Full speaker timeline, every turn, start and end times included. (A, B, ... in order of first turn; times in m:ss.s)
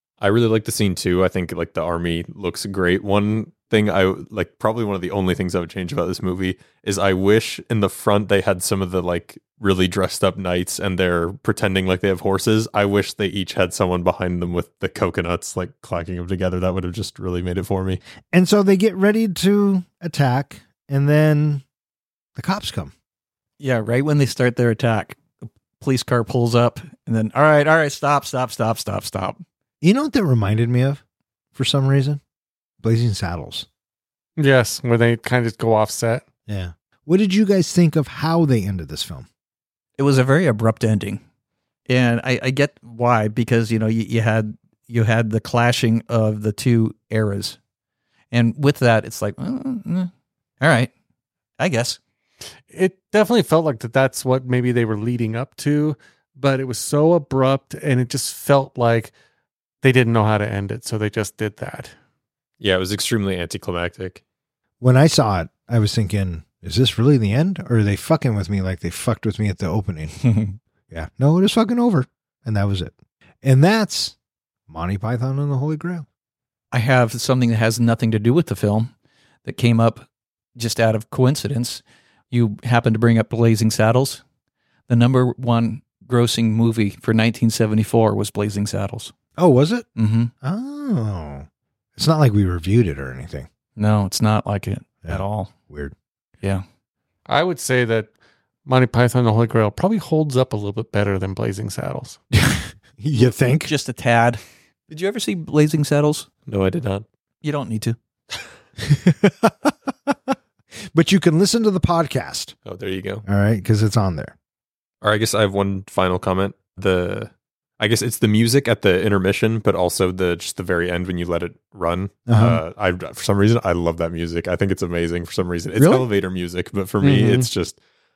0:00.2-0:18.0 A
0:18.3-0:21.6 B
0:22.4-0:22.9 B
0:23.6-0:25.2 C
0:25.8-0:29.4 C
0:29.8-0:31.0 B
0:31.6-0:32.2 B
0:32.8-0:33.7 B
0:34.4-0:36.2 D
0:36.5-0:39.3 B
0:40.0-0:41.2 C
0:41.9-0:47.6 C
0:48.3-0:50.9 C
0:51.6-0:52.0 C
0:52.7-0:59.1 D
0:59.8-1:01.9 D
1:02.6-1:04.2 A
1:04.8-1:10.2 B
1:10.2-1:10.6 C
1:10.9-1:14.2 B
1:14.7-1:16.1 B
1:16.7-1:18.9 C
1:19.4-1:20.0 C
1:20.6-1:24.2 C
1:24.9-1:29.1 C
1:29.4-1:29.9 B
1:30.0-1:30.3 C
1:30.4-1:33.5 B
1:33.8-1:35.5 C
1:35.0-1:35.9 B
1:37.3-1:38.1 D
1:38.7-1:42.2 D
1:42.3-1:43.7 B
1:43.1-1:46.3 C
1:46.5-1:47.0 A
1:47.4-1:48.0 C
1:48.8-1:50.2 B
1:50.9-1:52.6 B
1:52.7-1:53.2 A
1:53.3-1:54.4 B
1:55.0-2:07.8 A
2:02.3-2:02.6 B
2:05.8-2:06.1 B
2:07.0-2:07.5 D